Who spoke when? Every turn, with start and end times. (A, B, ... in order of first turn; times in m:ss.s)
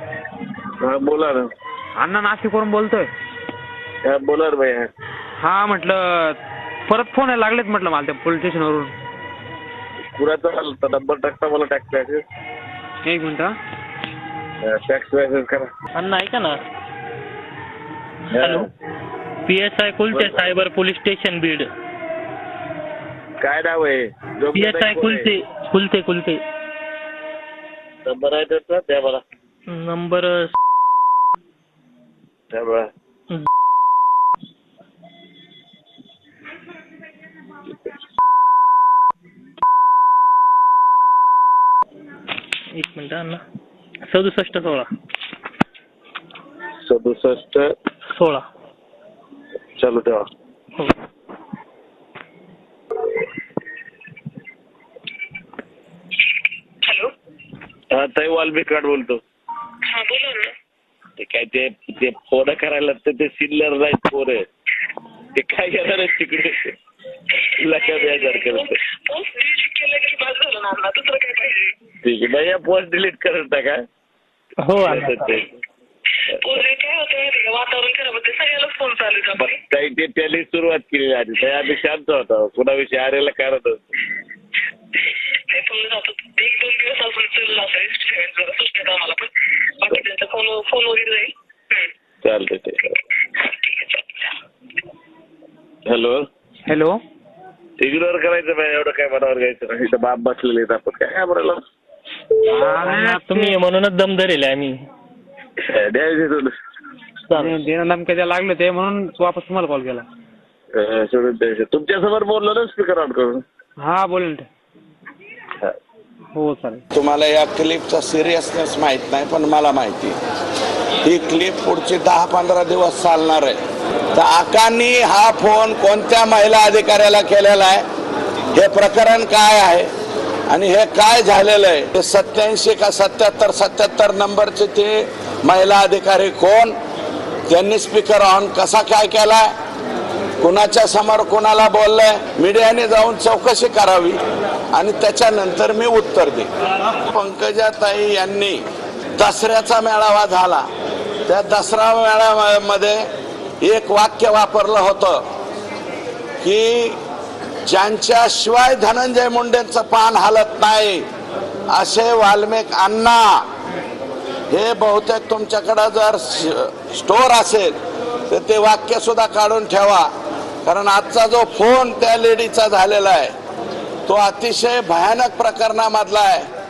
0:00.8-0:01.5 A
0:02.0-0:03.1 B
0:04.0-0:04.9 A
0:05.4-0:08.9 B
0:10.1-0:12.2 A
0:13.0-0:13.5 B
0:14.6-0:15.7 A
0:15.9-0:16.6 C
0:18.3-0:18.7 A
0:18.3-0:18.7 C
0:19.5-0:21.7 C
0:20.1-0:20.4 A
0:23.4-0:25.3 A
0:24.5-0:26.4 C
0:28.0-0:29.2 A
0:29.7-0:30.5 C
0:32.5-0:32.9 A
0:42.7-0:43.4 C
0:44.1-0:44.9 C
0:46.8-0:47.7 A
0:48.1-0:48.4 C
0:49.8-0:50.2 A
0:56.8-0:57.1 D
0:57.9-0:59.2 A
0:59.9-1:00.5 D
1:01.2-1:04.4 A
1:05.3-1:06.7 A
1:07.6-1:08.7 A
1:07.7-1:11.8 D
1:12.0-1:13.8 A
1:14.6-1:15.4 C
1:14.8-1:15.6 A
1:16.4-1:19.6 D
1:19.4-1:23.8 A
1:25.5-1:31.8 D
1:32.2-1:32.9 A
1:33.4-1:34.0 D
1:35.9-1:36.2 A
1:36.6-1:37.0 B
1:37.8-1:41.6 A
1:42.4-1:43.6 B
1:42.8-1:44.8 C
1:45.6-1:46.5 A
1:47.3-1:47.6 C
1:47.3-1:50.0 B
1:50.7-1:53.4 A
1:53.8-1:54.5 B
1:56.3-1:56.8 B
1:56.9-2:00.2 E
2:01.0-2:03.6 E
2:04.1-2:07.8 E
2:08.5-2:09.9 E
2:10.5-2:16.7 E
2:17.5-2:19.5 E
2:20.4-2:24.2 E
2:24.7-2:28.6 E
2:29.2-2:30.6 E
2:31.3-2:33.0 E
2:33.6-2:35.2 E
2:36.4-2:37.0 E
2:37.6-2:41.0 E
2:41.7-2:43.4 E
2:44.5-2:47.8 E
2:48.3-2:50.1 E
2:50.6-2:53.3 E
2:54.0-2:56.5 E